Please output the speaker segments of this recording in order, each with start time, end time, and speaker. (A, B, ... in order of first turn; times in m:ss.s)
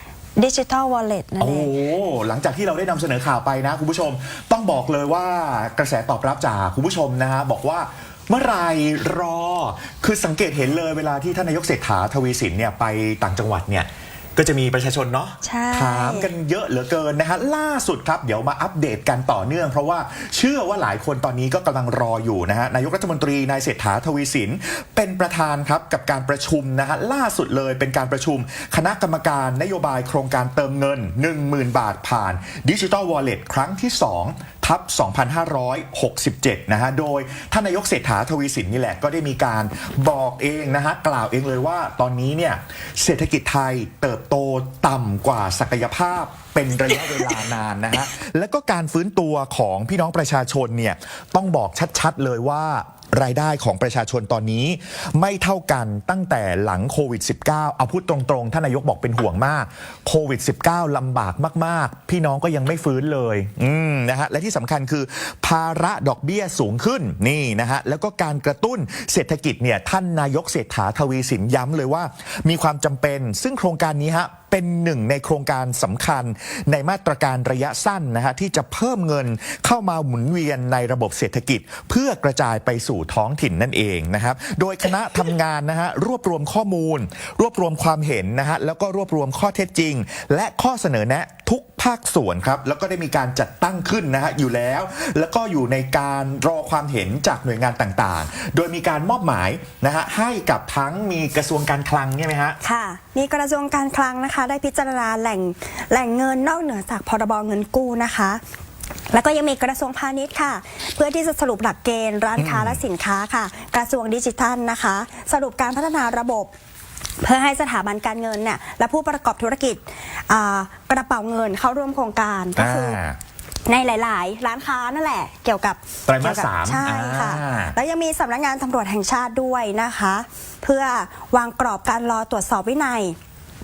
0:00.4-0:01.7 A
0:01.4-1:42.6 B
0:15.4-0:16.3 A
1:42.6-1:48.4 A
1:49.1-1:56.5 A
1:52.4-1:52.8 B
1:57.2-2:03.0 A
2:02.6-2:03.2 B
2:03.7-2:13.2 A
2:06.0-2:07.7 B